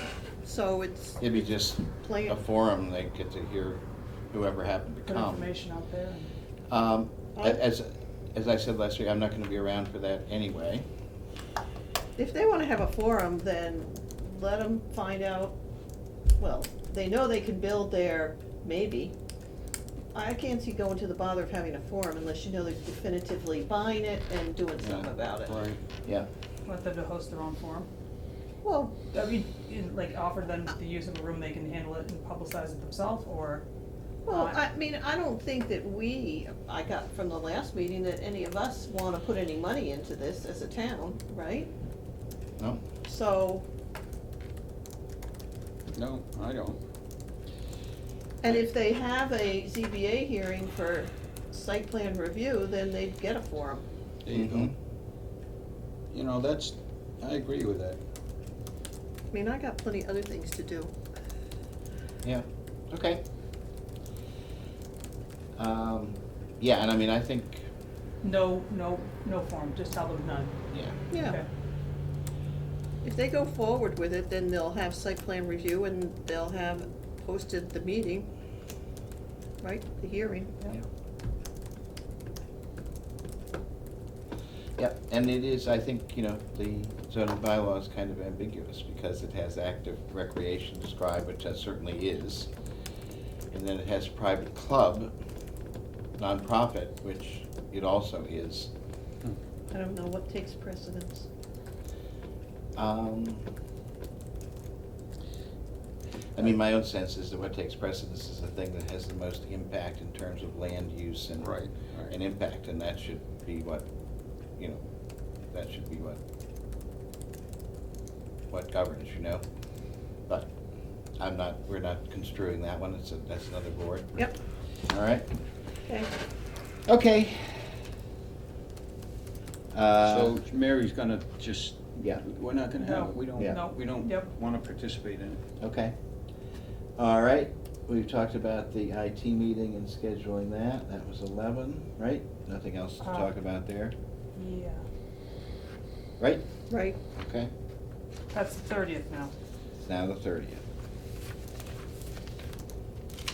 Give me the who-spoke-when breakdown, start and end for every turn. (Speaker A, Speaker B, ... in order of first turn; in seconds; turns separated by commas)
Speaker A: 0.4-1.2, Speaker B: 1.2-5.5, Speaker A: 2.0-2.4, Speaker C: 5.0-6.3, Speaker B: 6.7-10.8, Speaker A: 7.3-7.6, Speaker A: 12.2-15.6, Speaker A: 16.4-19.1, Speaker A: 20.1-25.6, Speaker D: 24.8-25.8, Speaker C: 26.6-27.9, Speaker A: 28.6-29.0, Speaker C: 29.1-33.6, Speaker A: 34.2-41.7, Speaker C: 34.3-34.6, Speaker B: 42.6-42.8, Speaker A: 43.0-43.6, Speaker D: 45.9-46.8, Speaker A: 48.4-53.8, Speaker D: 54.2-54.7, Speaker B: 54.3-54.7, Speaker D: 56.1-58.0, Speaker A: 59.3-60.9, Speaker B: 62.2-63.2, Speaker B: 65.6-67.7, Speaker C: 68.2-70.5, Speaker B: 70.7-71.0, Speaker A: 71.1-71.4, Speaker C: 71.2-71.5, Speaker A: 73.0-78.3, Speaker A: 79.6-80.6, Speaker B: 84.8-92.5, Speaker B: 93.5-95.1, Speaker B: 96.2-98.7, Speaker A: 99.7-101.3, Speaker B: 102.8-103.5, Speaker B: 106.3-113.8, Speaker D: 111.4-112.1, Speaker B: 114.6-114.8, Speaker B: 115.5-116.2, Speaker B: 118.5-119.4, Speaker B: 121.2-124.2, Speaker B: 124.9-125.3, Speaker B: 126.9-127.8, Speaker B: 129.7-130.3, Speaker D: 130.0-135.4, Speaker B: 132.0-132.2, Speaker C: 132.8-134.3, Speaker B: 135.6-135.9, Speaker B: 137.0-143.9, Speaker C: 143.0-143.3, Speaker C: 144.3-144.8, Speaker B: 146.2-146.4, Speaker A: 146.7-147.0, Speaker B: 147.2-147.5, Speaker C: 148.3-149.3, Speaker B: 149.8-150.6